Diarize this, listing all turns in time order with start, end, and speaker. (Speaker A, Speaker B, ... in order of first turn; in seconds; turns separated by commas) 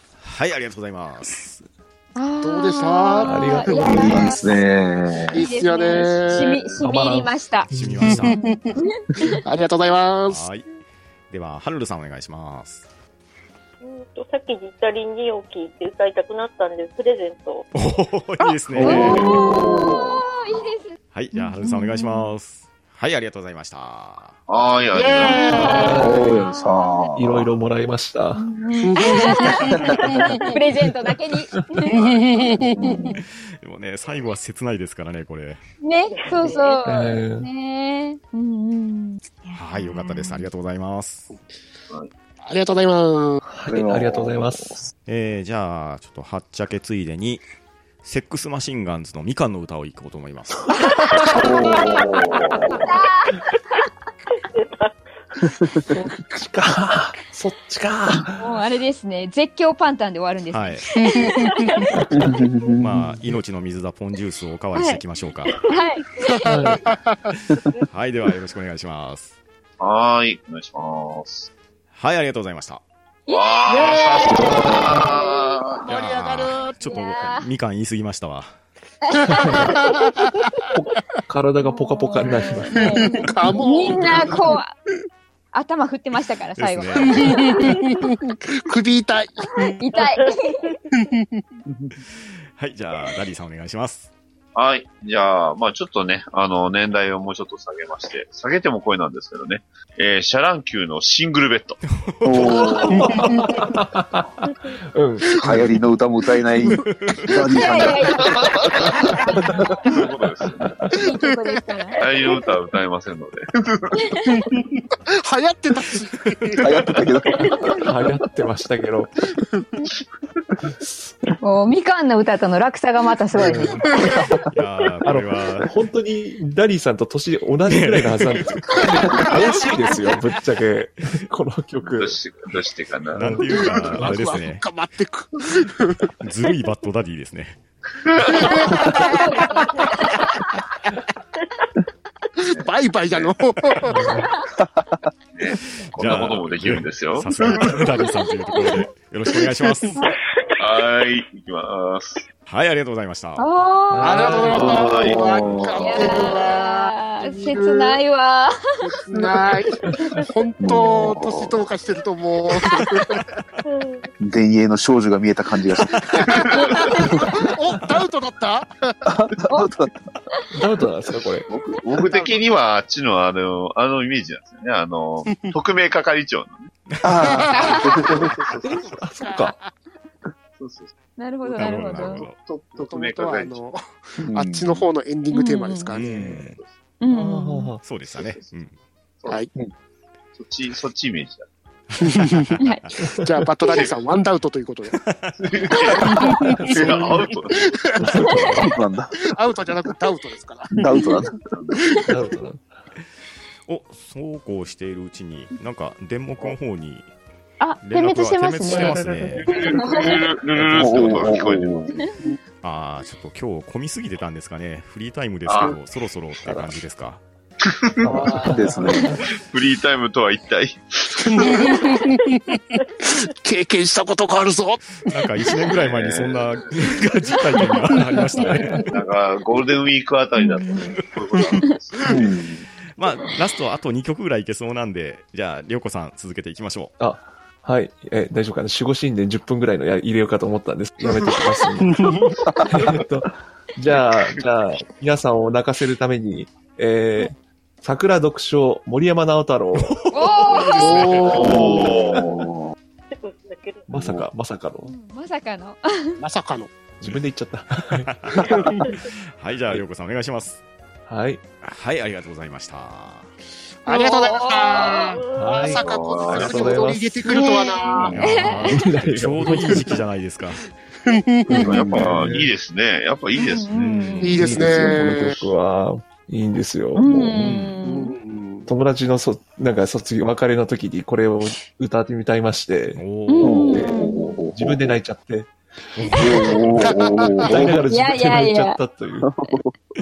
Speaker A: 0.2-1.6, Speaker B: 2.1-4.6, Speaker C: 2.4-4.2, Speaker D: 3.2-4.3, Speaker E: 3.9-5.4, Speaker C: 5.3-6.7, Speaker B: 5.3-7.7, Speaker A: 6.5-6.8, Speaker D: 6.8-8.3, Speaker A: 7.7-8.4, Speaker C: 8.1-8.8, Speaker B: 8.3-9.4, Speaker C: 9.3-10.4, Speaker A: 10.3-10.7, Speaker A: 11.3-12.8, Speaker F: 13.8-17.7, Speaker A: 17.7-19.4, Speaker B: 18.5-22.3, Speaker E: 18.7-19.6, Speaker G: 18.9-20.3, Speaker A: 21.1-24.4, Speaker G: 24.5-26.0, Speaker C: 24.9-26.0, Speaker B: 25.2-27.1, Speaker D: 25.6-26.5, Speaker E: 25.9-27.6, Speaker D: 27.1-28.4, Speaker B: 28.4-32.0, Speaker C: 28.8-30.5, Speaker E: 29.6-30.4, Speaker D: 31.6-31.9, Speaker C: 31.9-33.1, Speaker G: 32.1-32.6, Speaker B: 32.8-33.2, Speaker A: 33.6-35.6, Speaker B: 35.8-40.5, Speaker F: 36.1-36.9, Speaker D: 36.9-37.5, Speaker A: 39.5-41.3, Speaker C: 42.5-43.4, Speaker D: 43.5-44.8, Speaker E: 43.7-44.9, Speaker A: 45.1-47.4, Speaker A: 48.0-50.7, Speaker F: 51.3-52.8, Speaker G: 51.4-52.8, Speaker E: 51.4-52.3, Speaker B: 52.7-53.4, Speaker F: 54.5-55.0, Speaker D: 55.9-58.5, Speaker B: 58.4-62.4, Speaker A: 60.5-60.9, Speaker C: 61.0-61.8, Speaker E: 62.1-63.1, Speaker A: 62.8-65.6, Speaker B: 64.8-65.0, Speaker F: 65.5-65.7, Speaker B: 65.7-66.5, Speaker D: 66.4-66.8, Speaker C: 66.5-67.2, Speaker A: 67.3-69.3, Speaker G: 69.8-71.5, Speaker A: 71.9-72.8, Speaker B: 73.3-75.5, Speaker G: 73.3-75.8, Speaker C: 73.8-74.0, Speaker C: 75.8-77.0, Speaker A: 75.8-78.5, Speaker B: 76.9-77.5, Speaker B: 79.0-80.3, Speaker D: 79.3-79.6, Speaker C: 79.4-80.7, Speaker D: 80.8-83.0, Speaker B: 81.7-84.7, Speaker C: 82.8-84.4, Speaker B: 85.5-87.8, Speaker A: 86.6-87.5, Speaker C: 87.0-89.8, Speaker B: 89.5-90.6, Speaker F: 90.2-90.8, Speaker C: 91.0-91.4, Speaker A: 92.6-94.1, Speaker G: 94.5-101.8, Speaker A: 101.9-102.9, Speaker E: 102.2-103.3, Speaker B: 102.5-103.0, Speaker G: 102.6-103.2, Speaker C: 102.9-103.6, Speaker D: 103.1-104.3, Speaker D: 104.9-105.8, Speaker E: 105.4-108.5, Speaker A: 106.7-107.5, Speaker B: 107.5-109.8, Speaker G: 108.2-109.1, Speaker G: 109.8-110.9, Speaker B: 110.9-112.0, Speaker C: 111.0-111.6, Speaker G: 112.0-114.2, Speaker B: 114.0-114.4, Speaker C: 114.3-114.6, Speaker C: 115.2-116.9, Speaker E: 116.6-117.7, Speaker D: 117.8-119.1, Speaker B: 121.4-123.8, Speaker D: 123.4-124.4, Speaker A: 124.5-125.7, Speaker D: 125.0-132.2, Speaker A: 127.7-128.8, Speaker C: 129.1-130.0, Speaker G: 131.8-134.1, Speaker D: 133.2-134.1, Speaker A: 133.2-134.6, Speaker C: 133.5-136.1, Speaker A: 136.2-137.6, Speaker G: 138.0-138.7, Speaker C: 138.3-139.8, Speaker B: 138.7-140.4, Speaker F: 139.6-139.9, Speaker C: 142.4-144.1, Speaker G: 142.5-143.3, Speaker A: 143.6-143.9, Speaker D: 143.9-144.3, Speaker E: 144.6-144.9, Speaker G: 145.3-148.0, Speaker A: 145.8-150.1, Speaker C: 149.3-149.9, Speaker G: 150.6-152.2, Speaker A: 152.5-153.4, Speaker B: 153.4-154.8, Speaker D: 153.9-154.8, Speaker C: 154.0-158.0, Speaker G: 154.4-155.6, Speaker E: 154.6-156.2, Speaker B: 155.8-158.5, Speaker C: 158.8-163.3, Speaker D: 159.9-160.2, Speaker E: 160.6-161.6, Speaker F: 163.7-164.1, Speaker E: 164.2-166.4, Speaker C: 166.0-169.1, Speaker G: 166.3-166.9, Speaker B: 166.5-167.1, Speaker E: 169.1-170.0, Speaker D: 170.5-171.5, Speaker G: 171.5-176.7, Speaker A: 176.9-177.3, Speaker E: 177.0-178.4, Speaker C: 177.2-179.7, Speaker B: 177.5-177.9, Speaker D: 178.1-179.6, Speaker G: 178.1-179.0, Speaker G: 180.6-180.9, Speaker B: 181.2-182.3, Speaker G: 181.5-183.6, Speaker A: 181.5-182.4, Speaker C: 182.8-186.1, Speaker E: 184.2-184.8, Speaker B: 185.3-185.9, Speaker A: 185.9-186.6, Speaker D: 186.2-187.8, Speaker G: 186.2-186.7, Speaker B: 187.0-187.7, Speaker A: 187.8-188.8, Speaker G: 188.2-188.6, Speaker G: 190.4-191.5, Speaker A: 192.0-192.6, Speaker C: 192.0-192.5, Speaker B: 192.6-192.9, Speaker C: 193.1-195.0, Speaker A: 194.9-195.9, Speaker G: 195.4-197.7, Speaker C: 195.8-198.3, Speaker D: 196.3-197.0, Speaker D: 198.0-198.7, Speaker E: 198.1-199.2, Speaker B: 198.2-198.6, Speaker C: 199.3-201.0, Speaker E: 200.8-201.3, Speaker G: 201.5-201.8, Speaker D: 202.1-202.7, Speaker A: 203.7-207.1, Speaker B: 207.6-209.0, Speaker A: 207.8-209.7, Speaker D: 208.6-210.1, Speaker G: 209.4-212.0, Speaker B: 209.5-210.2, Speaker E: 210.6-212.0, Speaker A: 210.7-211.3, Speaker A: 212.6-217.2, Speaker G: 215.5-215.8, Speaker G: 217.6-218.5, Speaker D: 218.0-219.0, Speaker E: 218.2-219.2, Speaker G: 219.1-221.7, Speaker C: 221.2-225.1, Speaker B: 221.7-221.9, Speaker A: 225.0-228.9, Speaker G: 225.7-227.0, Speaker B: 227.3-227.8, Speaker D: 228.2-228.8, Speaker G: 228.8-232.2, Speaker B: 230.4-230.9, Speaker E: 232.1-232.6, Speaker A: 233.0-236.9, Speaker D: 237.0-250.0, Speaker C: 241.8-242.4, Speaker E: 242.6-243.0, Speaker G: 243.9-244.4, Speaker A: 249.8-251.7, Speaker B: 250.1-251.2, Speaker C: 250.8-251.9, Speaker G: 251.2-252.3, Speaker E: 251.3-252.8, Speaker D: 251.7-252.2, Speaker F: 253.1-253.9, Speaker D: 253.9-254.9, Speaker E: 253.9-254.3, Speaker B: 254.8-256.2, Speaker C: 256.2-256.7, Speaker D: 257.0-258.6, Speaker A: 258.1-260.6, Speaker C: 258.4-258.9, Speaker D: 261.1-261.4, Speaker A: 261.6-263.3, Speaker C: 263.9-268.2, Speaker B: 263.9-265.2, Speaker F: 264.8-266.8, Speaker D: 265.3-267.5, Speaker G: 265.8-266.9, Speaker B: 267.3-268.8, Speaker A: 268.1-270.7, Speaker D: 268.1-270.0, Speaker C: 271.1-271.7, Speaker D: 271.5-272.5, Speaker G: 271.5-273.7, Speaker E: 271.5-272.4, Speaker B: 273.4-274.4, Speaker A: 273.7-274.7, Speaker C: 274.2-275.4, Speaker D: 274.4-277.5, Speaker B: 277.0-278.1, Speaker A: 277.4-277.8, Speaker C: 277.9-278.7, Speaker D: 278.7-283.0, Speaker A: 283.0-283.8, Speaker B: 283.3-284.2, Speaker E: 283.4-285.0, Speaker D: 283.6-285.5, Speaker A: 286.0-286.9, Speaker E: 286.2-287.8, Speaker C: 286.6-287.6, Speaker D: 287.4-289.3, Speaker B: 287.9-288.8, Speaker E: 289.2-289.7